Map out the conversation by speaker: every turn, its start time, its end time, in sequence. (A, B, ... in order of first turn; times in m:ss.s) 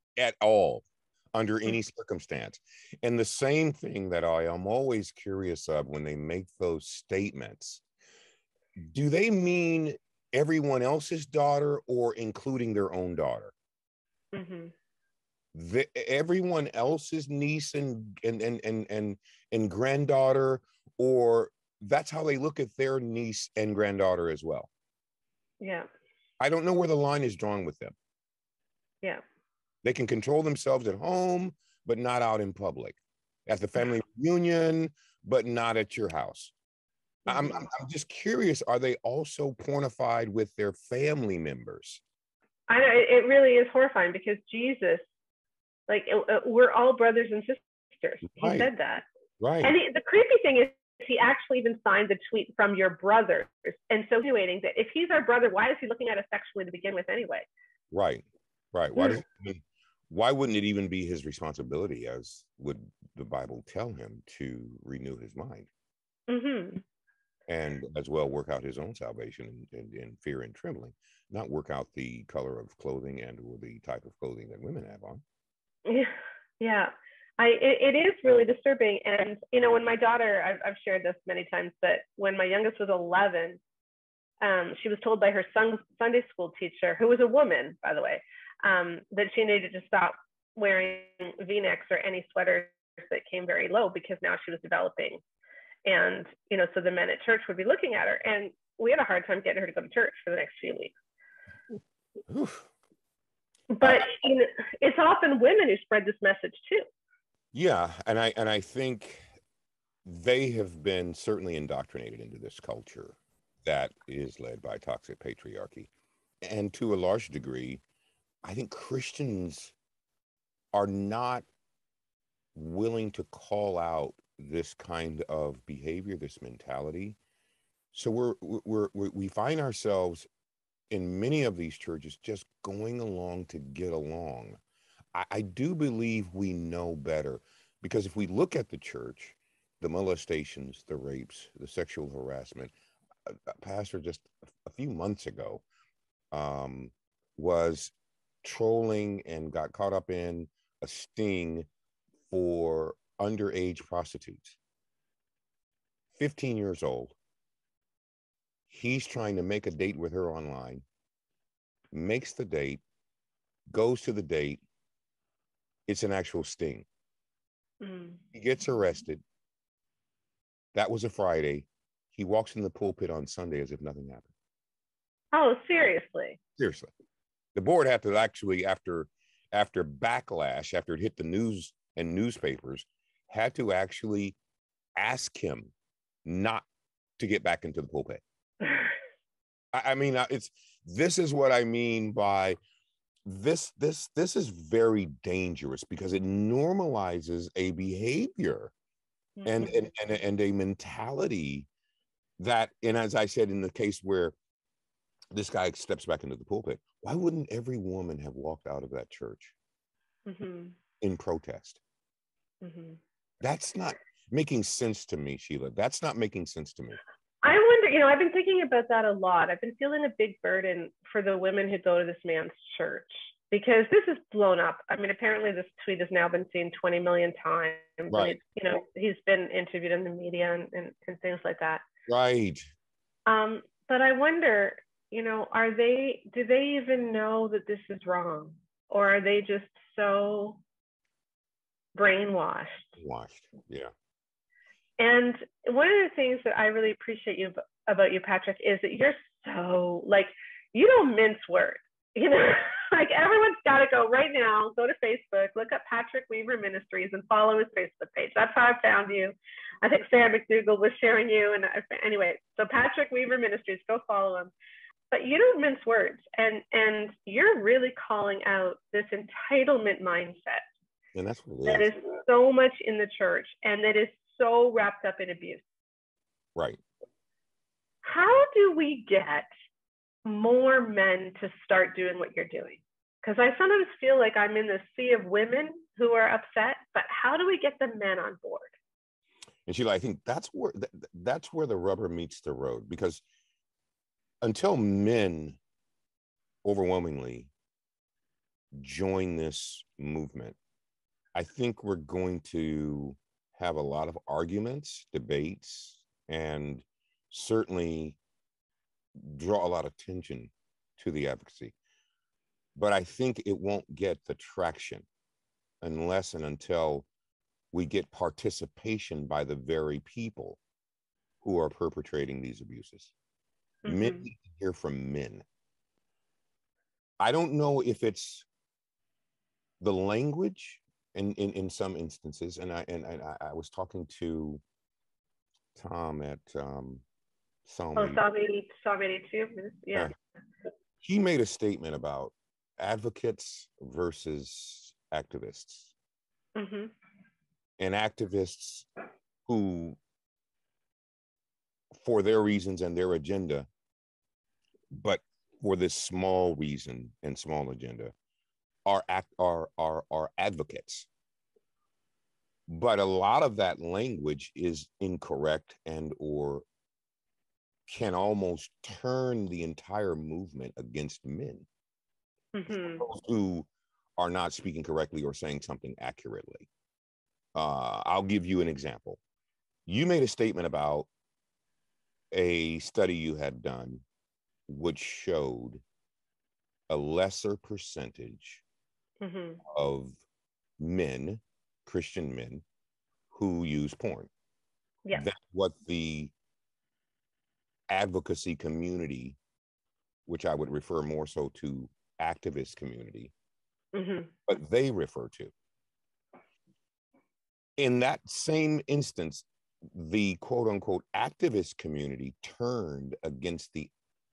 0:00.2-0:07.8 A
0:08.9-0:13.5 A
0:14.3-0:14.7 B
0:15.5-0:24.7 A
0:25.6-0:25.9 B
0:26.4-0:28.0 A
0:29.8-0:36.5 A
0:37.3-0:37.6 B
0:37.3-0:42.0 A
0:42.7-0:45.0 B
0:45.9-0:49.0 B
0:48.4-0:48.7 A
0:49.4-0:49.7 A
0:49.6-0:57.4 B
0:57.9-1:05.7 A
1:06.3-1:06.8 B
1:07.5-1:15.2 A
1:15.8-1:23.6 B
1:24.4-1:35.2 B
1:35.8-1:40.9 B
1:42.3-1:42.6 A
1:43.7-1:46.9 B
1:47.5-1:49.2 A
1:50.0-1:55.9 A
1:56.4-1:57.8 A
1:58.4-1:59.7 A
2:00.7-2:01.4 A
2:02.5-2:07.2 A
2:07.9-2:10.3 A
2:10.9-2:14.6 A
2:15.1-2:22.7 A
2:23.2-2:25.6 A
2:26.3-2:31.7 A
2:32.3-2:34.6 A
2:36.1-2:37.1 A
2:38.7-2:40.8 A
2:41.9-2:42.8 A
2:43.7-2:44.6 A
2:45.9-2:46.8 A
2:47.8-2:48.2 B
2:48.3-2:49.2 A
2:50.7-2:54.3 A
2:55.3-2:56.4 B
2:56.6-2:56.9 A
2:57.5-3:04.4 A
3:05.0-3:05.7 A
3:06.2-3:06.6 A
3:07.2-3:08.2 A
3:09.7-3:12.6 A
3:13.2-3:18.7 A
3:19.4-3:19.8 B
3:19.4-3:21.7 A
3:22.4-3:24.3 A
3:25.3-3:29.5 A
3:30.2-3:30.7 B
3:31.0-3:31.8 A
3:32.6-3:33.0 B
3:33.4-3:37.0 A
3:37.4-3:51.8 B
3:48.1-3:48.4 A
3:52.1-3:52.7 A
3:53.3-4:00.6 B
4:01.9-4:02.9 B
4:03.0-4:03.9 A
4:05.0-4:24.5 B
4:25.1-4:30.6 B
4:31.1-4:31.9 A
4:31.6-4:35.6 B
4:38.0-4:39.5 B
4:40.2-4:48.7 B
4:49.6-4:53.2 A
4:54.4-4:55.6 A
4:56.6-4:57.5 A
4:58.8-5:00.6 A
5:01.3-5:08.2 A
5:09.2-5:11.7 A
5:12.8-5:15.0 A
5:15.8-5:17.0 A
5:17.7-5:20.6 A
5:21.4-5:23.1 A
5:23.8-5:24.2 B
5:23.9-5:25.4 A
5:27.2-5:28.4 A
5:29.8-5:34.6 A
5:35.8-5:37.0 A
5:37.6-5:38.2 A
5:38.0-5:40.1 B
5:41.0-5:45.9 A
5:46.6-5:46.9 B
5:47.8-5:48.9 A
5:49.5-5:50.0 A
5:51.9-5:53.7 A
5:54.9-5:58.1 A
5:58.8-6:01.1 A
6:02.7-6:06.6 A
6:07.9-6:11.6 A
6:12.5-6:13.0 B
6:12.7-6:13.6 A
6:14.2-6:16.7 A
6:17.5-6:19.2 A
6:19.9-6:21.1 A
6:22.3-6:24.0 A
6:24.7-6:25.8 A
6:26.9-6:28.6 A
6:29.2-6:29.6 B
6:29.7-6:30.2 A
6:30.8-6:32.6 A
6:33.3-6:34.3 A
6:35.1-6:36.3 A
6:37.9-6:39.4 A
6:40.3-6:43.3 A
6:43.9-6:44.3 B
6:44.4-6:45.5 A
6:47.8-6:53.9 A